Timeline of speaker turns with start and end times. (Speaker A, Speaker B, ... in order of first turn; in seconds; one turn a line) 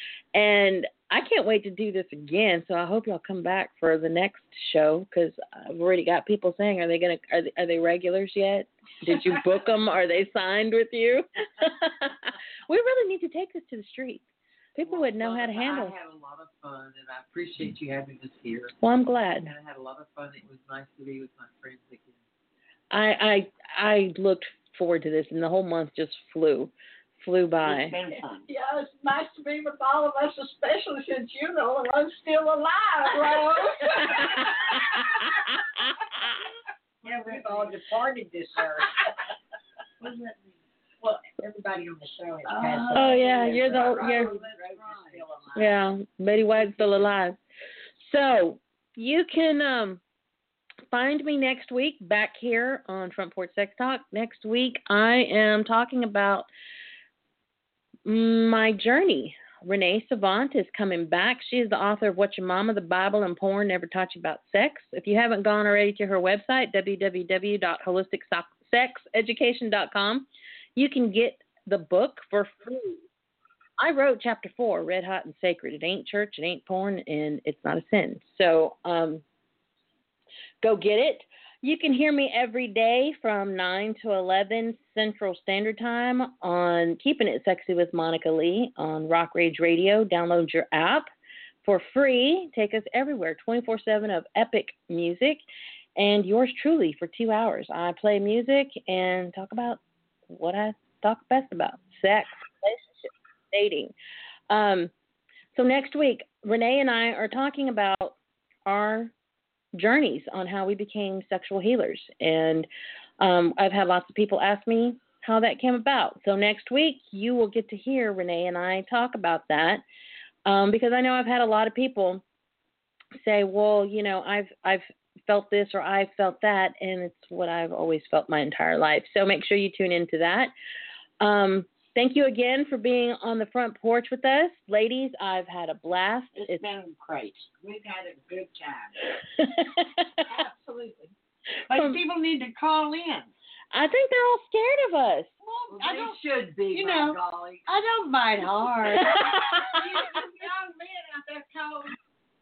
Speaker A: 0.3-15.9
Speaker B: 14.8-18.7
Speaker A: 18.8-19.5
Speaker B: 19.4-22.2
Speaker A: 22.9-27.9
Speaker C: 27.6-28.5
Speaker D: 28.1-35.0
Speaker E: 37.0-39.0
Speaker B: 37.3-37.7
Speaker B: 40.0-40.5
Speaker E: 41.0-45.8
Speaker A: 42.9-44.3
Speaker B: 42.9-45.2
Speaker A: 45.5-47.4
Speaker A: 48.0-50.0
Speaker A: 50.9-56.5
Speaker A: 58.0-73.0
Speaker A: 73.8-79.2
Speaker A: 80.6-91.1
Speaker A: 91.6-95.4
Speaker A: 96.0-103.9
Speaker A: 104.5-104.9
Speaker A: 105.5-109.1
Speaker A: 109.7-112.7
Speaker A: 113.2-119.8
Speaker A: 120.5-122.2
Speaker A: 123.2-130.5
Speaker A: 131.2-136.7
Speaker C: 136.3-137.5
Speaker E: 137.6-139.0
Speaker A: 139.4-140.2
Speaker D: 140.2-141.1
Speaker C: 141.7-143.3
Speaker A: 141.7-142.0
Speaker A: 143.7-145.3
Speaker D: 145.4-145.7
Speaker B: 145.7-147.7
Speaker C: 145.8-146.2
Speaker C: 146.7-149.2
Speaker A: 148.9-149.7
Speaker D: 149.1-151.9